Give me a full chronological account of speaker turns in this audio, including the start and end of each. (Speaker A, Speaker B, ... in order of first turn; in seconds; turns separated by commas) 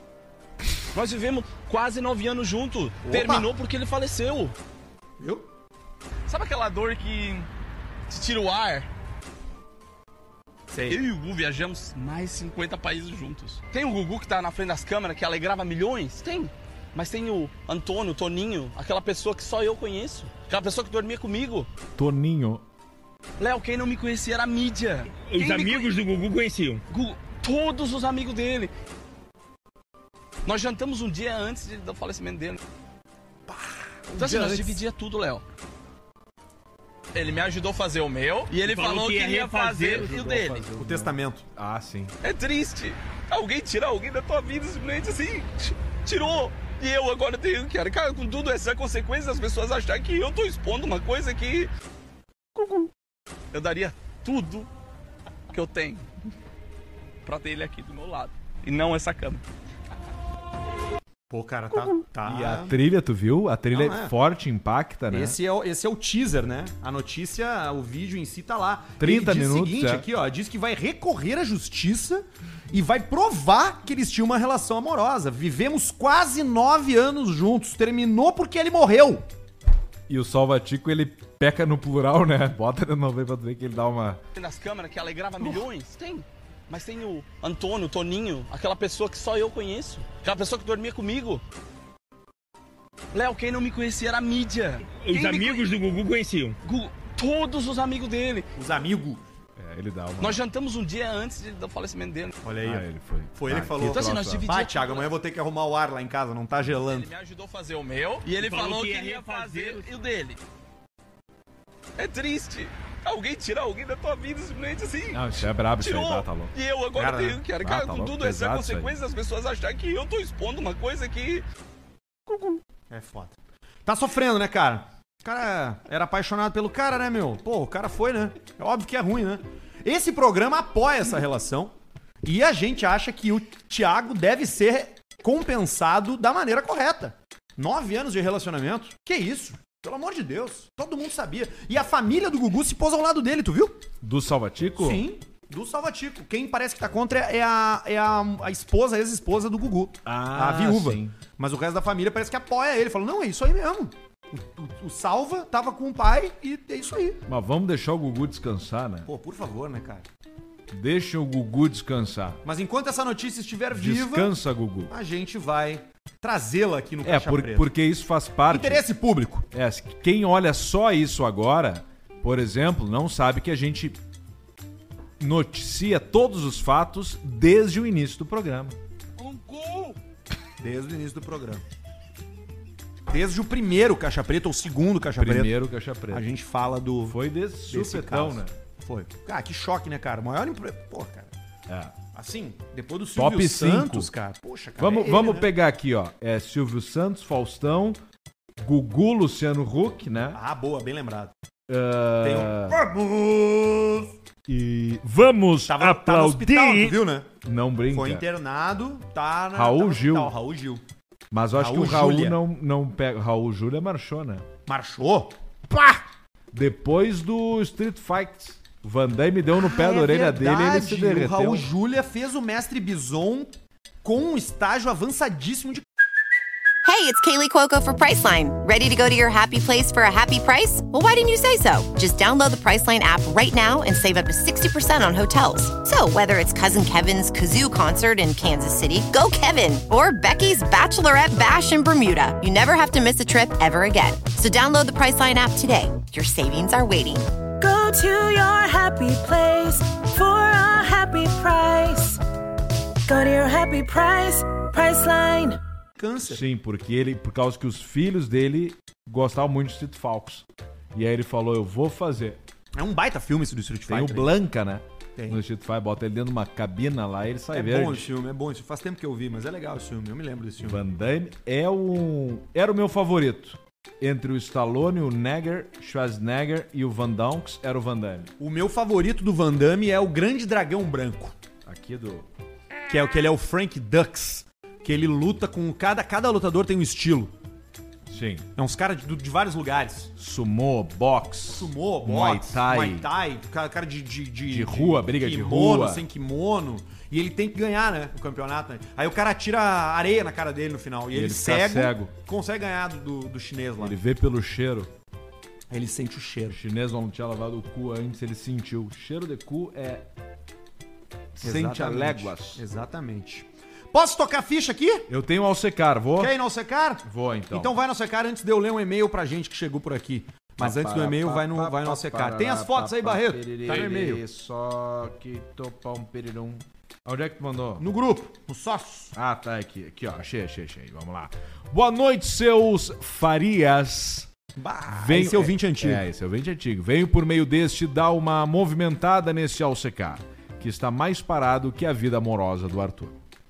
Speaker A: 0.9-4.5, Speaker B: 3.0-3.5, Speaker B: 5.2-5.5, Speaker A: 6.3-7.5, Speaker A: 8.1-8.9, Speaker B: 10.7-11.0, Speaker A: 10.8-21.7, Speaker C: 21.9-22.6, Speaker A: 23.4-25.9, Speaker D: 25.2-26.8, Speaker A: 26.9-28.7, Speaker A: 30.4-32.6, Speaker B: 33.5-34.8, Speaker A: 34.2-35.4, Speaker A: 37.1-40.7, Speaker D: 38.5-40.3, Speaker C: 39.9-42.1, Speaker B: 40.8-41.4, Speaker A: 42.2-51.7, Speaker A: 53.5-54.7, Speaker A: 55.5-56.0, Speaker A: 57.2-59.4, Speaker B: 61.3-62.8, Speaker C: 62.2-65.4, Speaker B: 63.7-64.1, Speaker B: 65.1-79.2, Speaker C: 69.0-70.0, Speaker C: 80.1-84.2, Speaker A: 84.3-91.4, Speaker A: 93.1-95.7, Speaker D: 94.9-96.6, Speaker A: 96.6-98.5, Speaker B: 98.5-99.2, Speaker C: 99.6-100.4, Speaker A: 100.2-102.3, Speaker B: 102.4-107.1, Speaker C: 102.6-104.5, Speaker A: 103.8-105.1, Speaker A: 106.7-110.4, Speaker D: 108.3-109.9, Speaker A: 112.0-115.2, Speaker C: 115.1-116.5, Speaker A: 115.8-121.4, Speaker B: 116.9-117.4, Speaker C: 117.6-118.9, Speaker B: 122.9-123.3, Speaker B: 123.8-143.8, Speaker C: 144.0-145.0, Speaker B: 144.8-157.2, Speaker C: 150.0-151.1, Speaker C: 157.3-159.1, Speaker B: 159.1-160.0, Speaker C: 160.7-162.4, Speaker B: 162.4-164.3, Speaker C: 163.7-164.9, Speaker B: 164.9-167.7, Speaker C: 167.0-168.8, Speaker B: 168.5-169.4, Speaker C: 169.5-174.0, Speaker C: 175.2-178.8, Speaker A: 179.2-179.9, Speaker B: 180.6-181.6, Speaker B: 183.1-185.6, Speaker C: 185.2-186.3, Speaker B: 186.1-191.3, Speaker C: 187.1-188.5, Speaker C: 191.7-191.9, Speaker B: 192.1-195.5, Speaker C: 193.1-194.1, Speaker C: 194.8-198.0, Speaker C: 198.6-200.4, Speaker B: 200.3-201.3, Speaker C: 201.7-202.8, Speaker B: 202.2-204.1, Speaker C: 204.4-208.2, Speaker B: 205.7-207.3, Speaker B: 207.9-210.8, Speaker C: 209.5-210.3, Speaker C: 211.3-214.4, Speaker B: 211.5-212.4, Speaker B: 214.7-215.3, Speaker C: 215.7-216.0, Speaker C: 216.5-221.7, Speaker B: 219.5-225.8, Speaker E: 226.8-247.2, Speaker F: 247.6-252.2, Speaker F: 253.1-255.6, Speaker B: 256.0-256.4, Speaker C: 256.3-262.4, Speaker B: 262.8-264.3, Speaker C: 263.9-268.1, Speaker B: 265.1-265.4, Speaker B: 267.5-270.8, Speaker C: 270.6-278.3, Speaker B: 278.4-281.3, Speaker C: 281.6-282.3, Speaker B: 282.9-287.3, Speaker C: 288.1-288.4, Speaker B: 288.6-290.1, Speaker C: 290.2-293.1, Speaker B: 291.5-304.0, Speaker C: 294.5-296.0, Speaker C: 301.1-302.1, Speaker C: 303.8-304.9, Speaker B: 305.7-306.6, Speaker C: 306.5-310.1, Speaker C: 311.3-312.6, Speaker B: 311.4-315.1, Speaker C: 315.1-316.3, Speaker B: 316.2-324.2, Speaker C: 317.0-317.7, Speaker C: 320.6-327.8, Speaker B: 327.8-329.1, Speaker C: 329.1-334.3, Speaker B: 334.6-336.0, Speaker C: 334.9-343.2